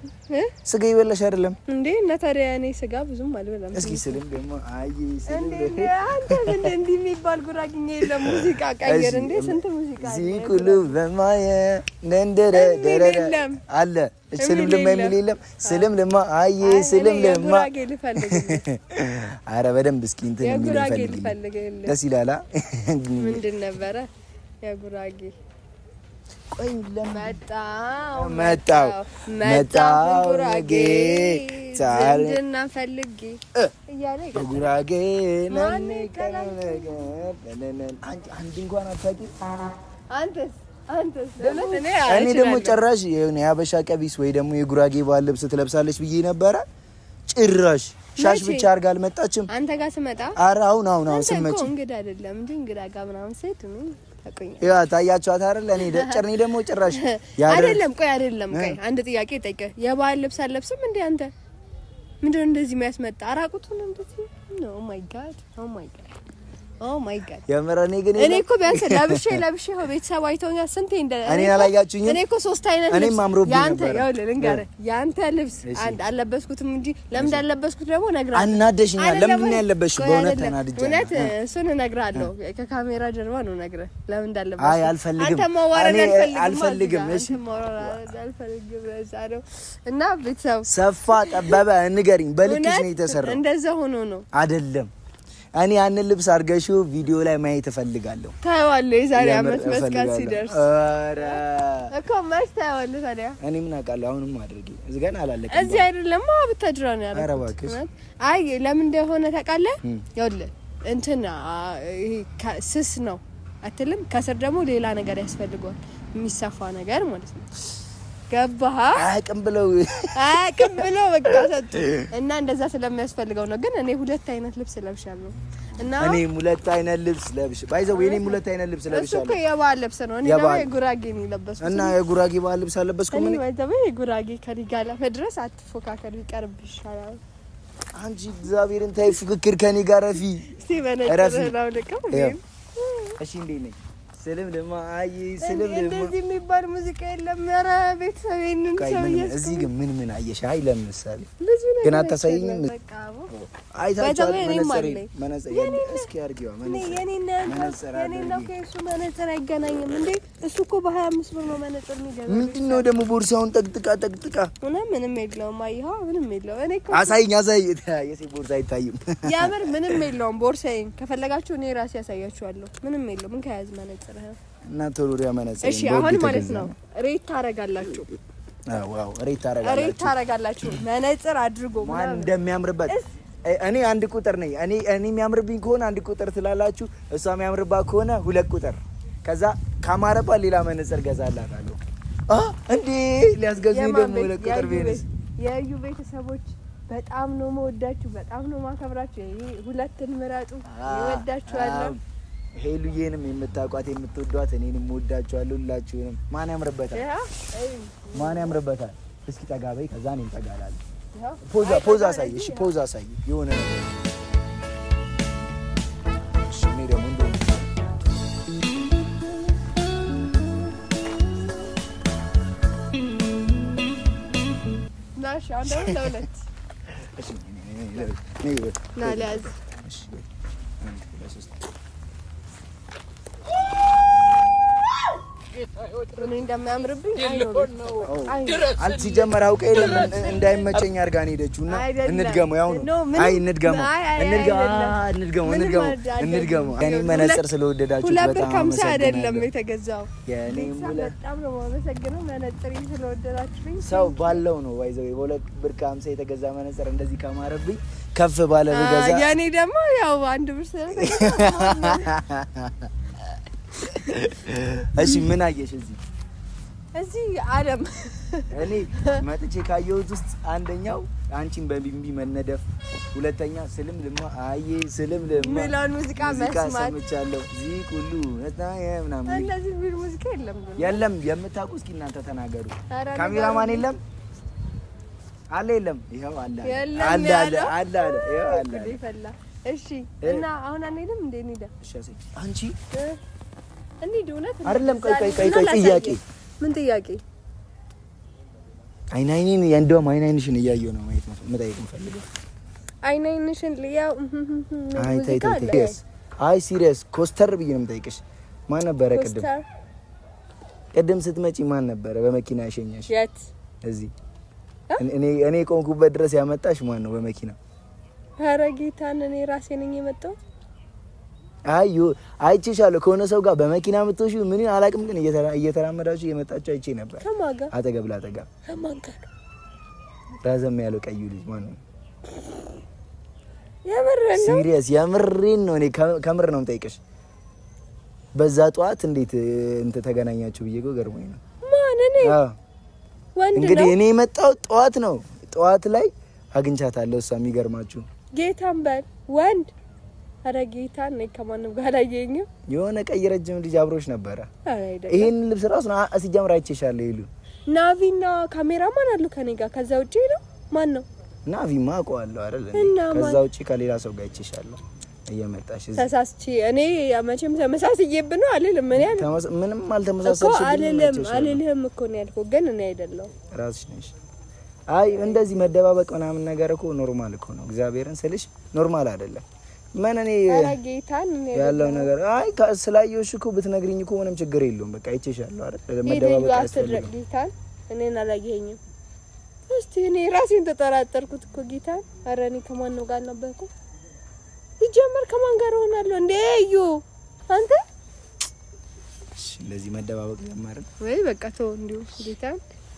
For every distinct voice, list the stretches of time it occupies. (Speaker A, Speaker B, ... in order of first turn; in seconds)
Speaker A: 0.3-0.5, 1.7-4.2, 5.3-11.0, 12.5-13.6, 14.4-15.9, 16.6-18.6, 20.4-22.0, 23.2-24.1, 24.6-25.4, 27.1-34.7, 35.5-37.0, 40.1-42.8, 48.2-48.7, 49.5-50.4, 51.1-54.8, 55.8-56.2, 56.9-61.3, 62.2-66.2, 66.8-67.5, 68.2-91.6, 92.4-94.3, 98.4-100.7, 101.2-103.4, 105.5-117.5, 118.3-119.1, 120.2-126.2, 127.9-132.0, 133.1-137.2, 140.5-143.2, 145.4-149.7, 151.4-153.3, 154.0-156.1, 156.6-162.9, 164.6-167.2, 169.2-174.4, 175.6-178.2, 179.6-182.3, 193.7-202.0, 206.9-208.6, 211.1-212.7, 225.2-226.4, 229.0-229.6, 236.1-238.8, 241.7-254.4, 258.7-262.1, 266.9-269.2, 275.4-277.0, 279.3-281.1, 282.9-283.9, 286.6-291.7, 292.9-293.2, 294.0-297.2, 303.0-306.0, 309.1-309.6, 313.1-313.5, 318.4-320.4, 327.2-327.7, 328.6-329.3, 333.9-334.7, 341.6-342.4, 343.4-344.0, 348.3-349.7, 350.4-352.5, 354.6-355.3, 357.7-361.1, 362.7-363.4, 366.0-369.3, 370.2-373.3, 375.2-375.5, 380.5-382.1, 386.1-388.8, 389.7-393.7, 394.8-397.8, 401.0-402.6
Speaker B: 0.7-1.6, 3.7-6.7, 8.0-23.4, 26.6-27.4, 28.1-32.4, 34.3-39.3, 41.4-46.6, 47.3-49.5, 50.4-51.7, 54.6-57.8, 58.5-58.8, 67.5-69.4, 71.3-72.2, 72.9-74.7, 75.6-76.0, 77.2-77.4, 78.3-81.3, 84.6-88.2, 90.7-93.4, 94.3-94.9, 95.6-98.3, 99.1-101.9, 103.4-105.9, 107.1-107.8, 119.0-122.1, 126.0-129.4, 130.2-130.7, 131.6-133.4, 137.9-140.5, 141.0-141.6, 142.1-142.4, 143.2-146.2, 148.8-151.3, 151.8-152.7, 153.3-158.5, 162.3-164.5, 166.9-170.0, 174.7-176.7, 178.7-180.8, 181.8-195.1, 200.7-202.0, 202.6-207.1, 208.1-210.8, 211.4-214.0, 216.5-217.7, 225.7-226.1, 226.9-230.3, 230.8-231.6, 238.0-249.5, 250.2-251.2, 253.8-259.4, 260.9-262.9, 263.7-266.0, 268.5-279.5, 280.8-284.0, 285.5-289.0, 290.2-290.5, 291.8-292.8, 294.6-296.2, 299.1-302.2, 305.0-309.5, 310.9-313.1, 313.8-314.1, 315.0-317.6, 321.7-328.5, 330.4-331.8, 334.3-337.0, 338.4-341.4, 342.2-342.6, 343.6-348.1, 352.7-354.5, 355.1-357.3, 361.5-366.1, 368.9-371.6, 373.5-374.1, 374.9-380.8, 381.5-387.1, 399.4-400.9